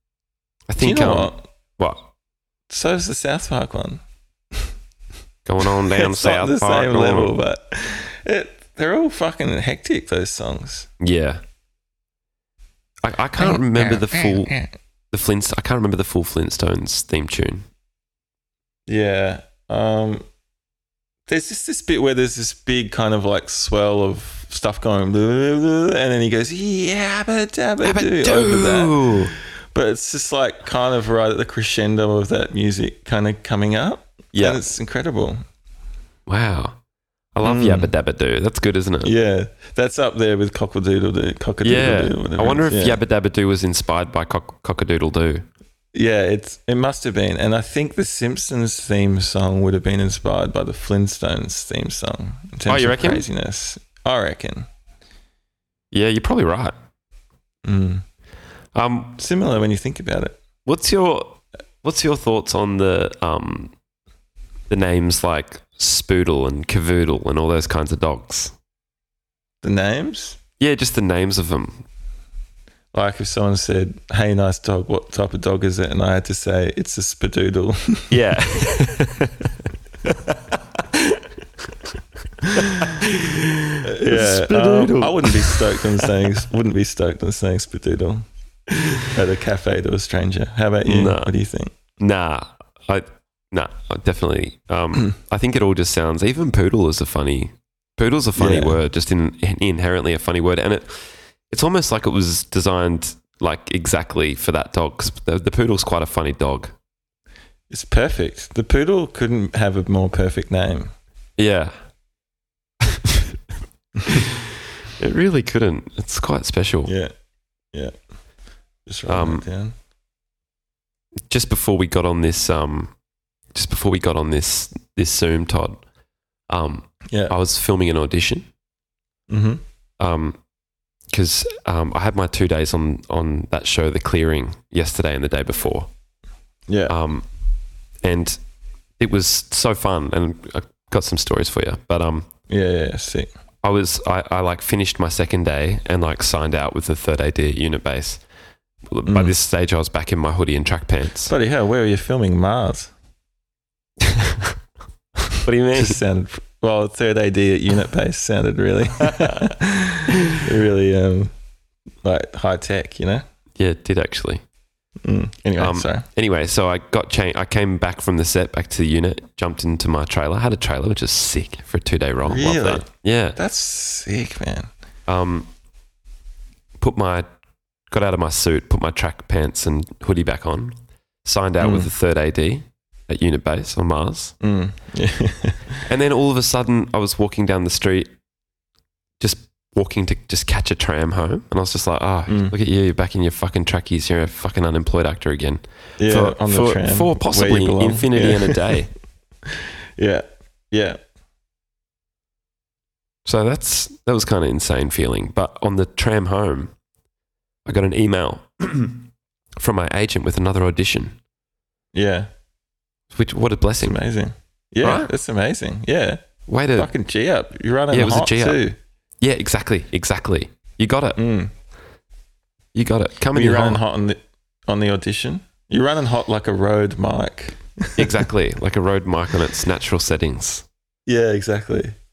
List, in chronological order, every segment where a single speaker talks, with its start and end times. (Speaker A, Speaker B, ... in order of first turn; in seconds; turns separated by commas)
Speaker A: 0.7-2.1, Speaker B: 0.8-1.5, Speaker B: 2.7-4.0, Speaker A: 5.5-7.3, Speaker B: 5.9-10.9, Speaker A: 11.0-11.4, Speaker A: 13.0-17.6, Speaker B: 13.4-14.7, Speaker B: 18.9-20.2, Speaker B: 21.3-35.4, Speaker A: 27.8-29.3, Speaker A: 34.3-34.6, Speaker A: 36.3-36.8, Speaker A: 37.4-39.1, Speaker B: 37.4-37.9, Speaker B: 39.0-43.0, Speaker A: 41.6-45.5, Speaker B: 45.9-54.7, Speaker A: 52.7-53.2, Speaker A: 55.9-56.8, Speaker B: 57.6-58.0, Speaker A: 58.8-59.2, Speaker B: 59.2-60.4, Speaker A: 60.6-63.7, Speaker A: 64.7-68.5, Speaker B: 69.6-70.4, Speaker A: 70.6-71.8, Speaker B: 72.9-78.2, Speaker A: 78.1-79.5, Speaker A: 81.0-81.2, Speaker A: 82.6-85.7, Speaker B: 83.8-88.2, Speaker B: 89.1-91.7, Speaker A: 90.8-91.3, Speaker A: 92.0-101.0, Speaker B: 98.4-98.8, Speaker A: 101.5-106.7, Speaker B: 107.7-110.9, Speaker A: 111.4-111.7, Speaker A: 114.1-114.4, Speaker A: 115.0-116.9, Speaker B: 116.8-117.1, Speaker B: 118.9-119.7, Speaker A: 119.1-119.4, Speaker A: 121.3-122.9, Speaker A: 123.5-125.8, Speaker A: 126.5-128.5, Speaker B: 127.1-127.3, Speaker B: 129.3-129.6, Speaker A: 130.0-130.4, Speaker A: 131.1-135.9, Speaker B: 136.7-136.9, Speaker A: 136.9-137.2, Speaker A: 138.0-138.4, Speaker A: 139.0-142.2, Speaker B: 142.5-143.3, Speaker A: 143.6-148.2, Speaker A: 148.9-151.3, Speaker B: 149.1-149.4, Speaker B: 151.3-152.9, Speaker A: 154.1-154.5, Speaker A: 155.4-156.0, Speaker B: 155.7-161.3, Speaker B: 162.0-163.2, Speaker A: 163.6-164.4, Speaker B: 165.0-166.1, Speaker A: 165.6-173.4, Speaker B: 172.2-174.7, Speaker A: 175.1-175.5, Speaker A: 176.8-177.2, Speaker A: 177.9-184.3, Speaker B: 181.6-181.9, Speaker B: 184.4-185.8, Speaker A: 185.9-188.1, Speaker A: 189.2-198.9, Speaker B: 192.3-192.5, Speaker B: 196.0-198.7, Speaker B: 200.0-201.0, Speaker A: 203.2-206.7, Speaker A: 207.7-209.1, Speaker A: 209.6-211.2, Speaker B: 211.9-212.3, Speaker A: 213.1-214.0, Speaker B: 213.8-218.8, Speaker A: 214.8-215.1, Speaker A: 216.5-216.9, Speaker A: 217.9-218.6, Speaker A: 219.2-221.2, Speaker B: 221.2-221.5, Speaker A: 222.7-223.8, Speaker B: 223.3-228.2, Speaker A: 228.0-230.6, Speaker B: 231.1-231.9